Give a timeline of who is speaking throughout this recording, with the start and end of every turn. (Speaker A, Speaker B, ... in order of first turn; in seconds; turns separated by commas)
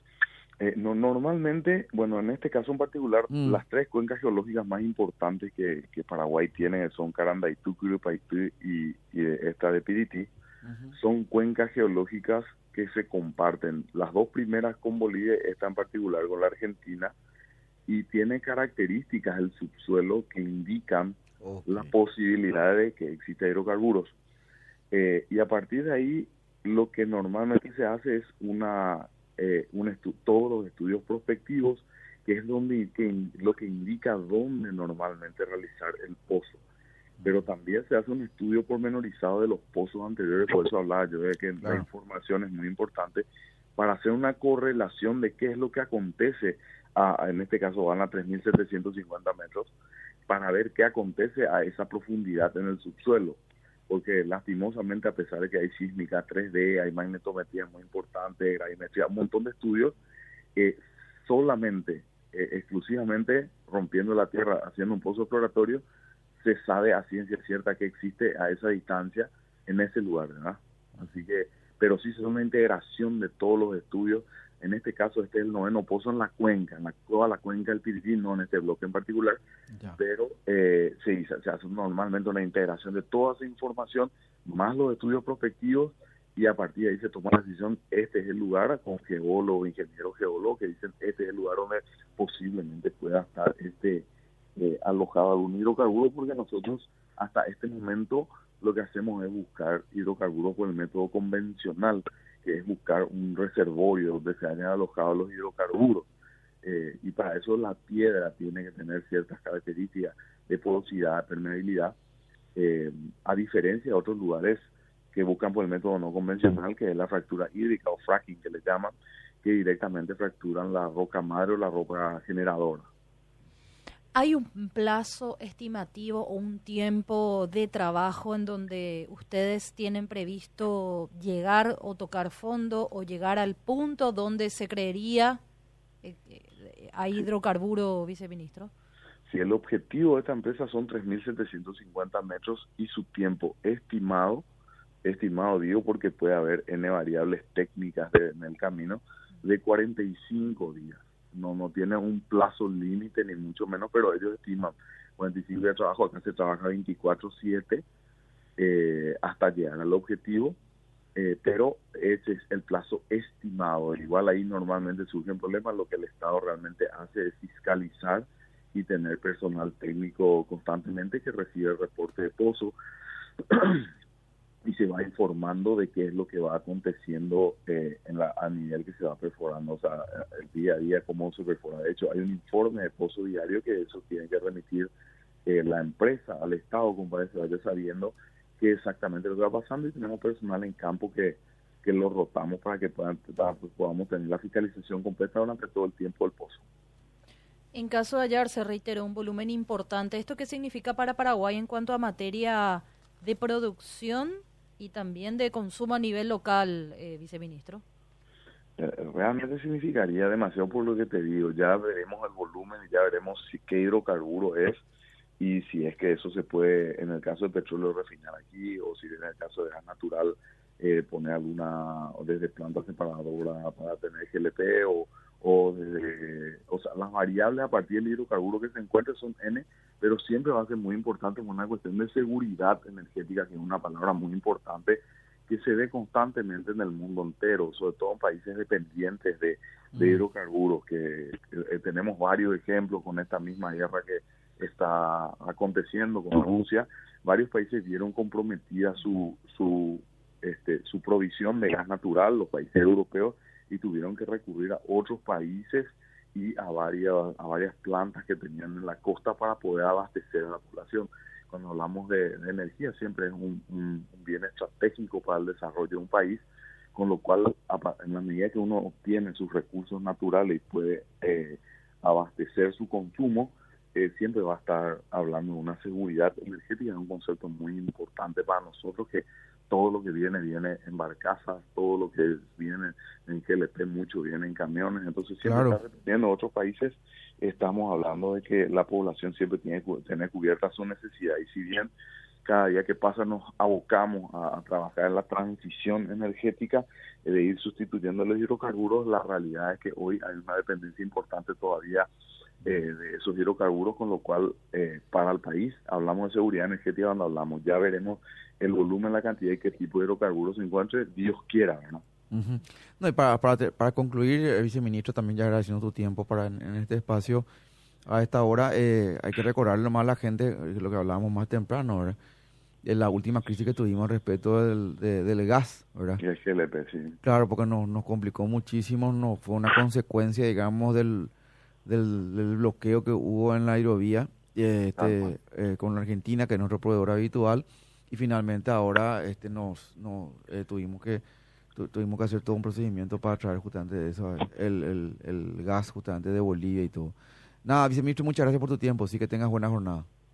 Speaker A: 0.6-10.3, Speaker B: 3.3-3.6, Speaker B: 10.6-10.9, Speaker A: 10.9-17.1, Speaker A: 17.9-24.1, Speaker B: 21.4-21.9, Speaker A: 24.9-36.6, Speaker B: 37.2-37.5, Speaker A: 37.2-43.2, Speaker A: 43.8-49.7, Speaker A: 50.3-60.0, Speaker A: 60.5-65.8, Speaker A: 66.4-79.4, Speaker A: 80.0-106.1, Speaker A: 106.6-112.0, Speaker A: 112.5-122.9, Speaker C: 124.1-135.4, Speaker C: 136.0-138.7, Speaker A: 139.3-144.4, Speaker A: 145.0-157.8, Speaker A: 158.6-160.5, Speaker A: 161.2-172.7, Speaker A: 173.5-173.9, Speaker A: 174.6-184.9, Speaker A: 185.4-196.6, Speaker C: 197.7-207.8, Speaker A: 208.8-214.8, Speaker A: 215.4-291.9, Speaker B: 239.9-240.2, Speaker B: 285.4-285.8, Speaker A: 292.4-302.1, Speaker A: 302.6-312.0, Speaker B: 312.3-317.5, Speaker B: 318.1-322.1, Speaker B: 322.8-326.2, Speaker A: 326.2-327.2, Speaker B: 327.2-331.3, Speaker B: 331.9-341.2, Speaker A: 335.0-335.3, Speaker B: 341.7-350.1